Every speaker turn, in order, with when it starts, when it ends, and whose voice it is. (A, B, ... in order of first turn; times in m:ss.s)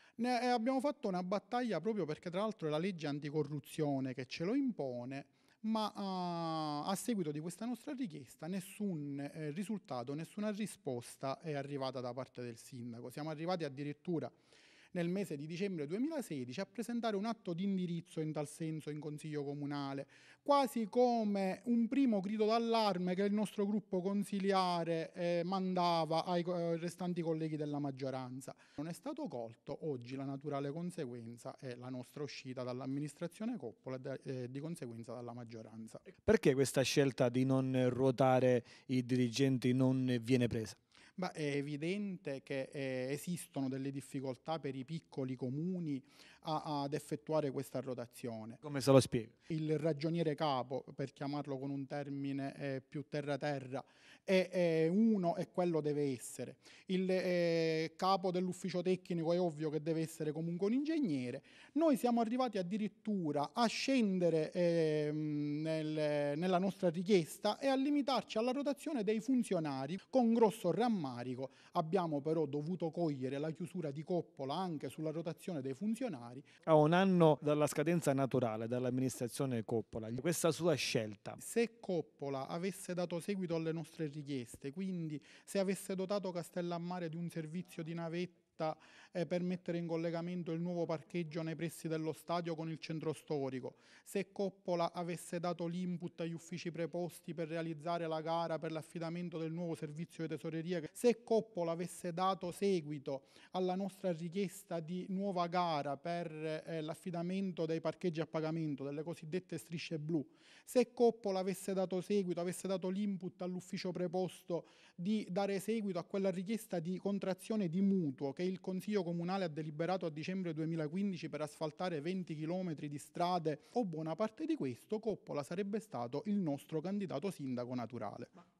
0:00.2-0:14.3 A
0:14.9-0:36.0 A
0:36.2-0:40.8 B
0:41.2-0:48.6 A
0:48.6-0:49.3 B
0:49.5-1:16.5 A
1:16.7-1:21.4 B
1:21.4-2:08.3 A